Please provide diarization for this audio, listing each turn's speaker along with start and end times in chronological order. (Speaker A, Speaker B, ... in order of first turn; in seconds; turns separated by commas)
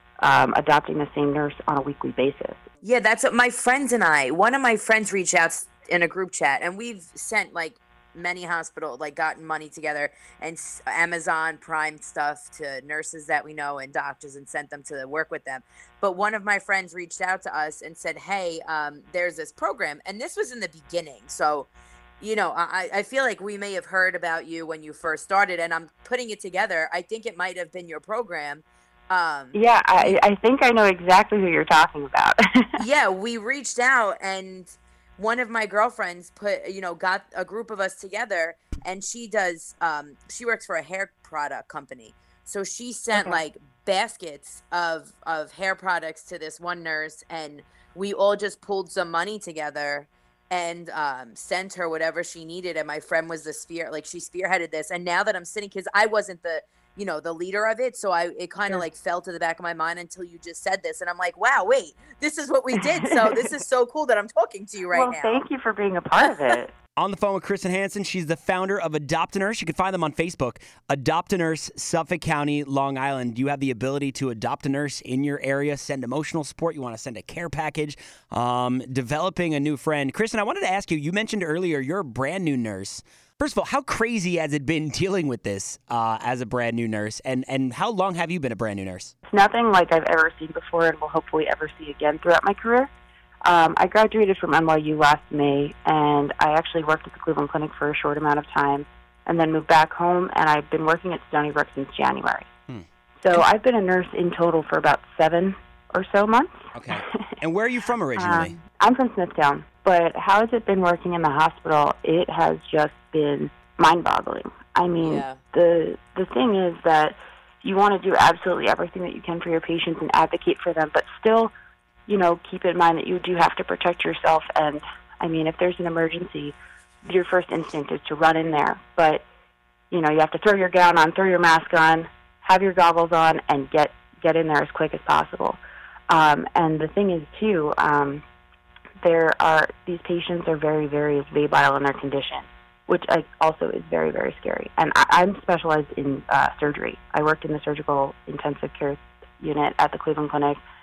Speaker A: 0.2-2.7, Speaker B: 2.8-30.2, Speaker A: 29.5-32.7, Speaker B: 32.8-65.5, Speaker A: 43.1-43.4, Speaker A: 62.8-63.6, Speaker A: 64.9-66.7, Speaker B: 66.2-66.5, Speaker C: 67.0-89.1, Speaker A: 89.3-92.9, Speaker A: 93.4-102.5, Speaker A: 103.2-107.2, Speaker C: 106.7-108.6, Speaker A: 108.2-121.5, Speaker B: 115.0-115.4, Speaker A: 122.1-129.2, Speaker A: 129.9-138.2, Speaker A: 139.0-150.6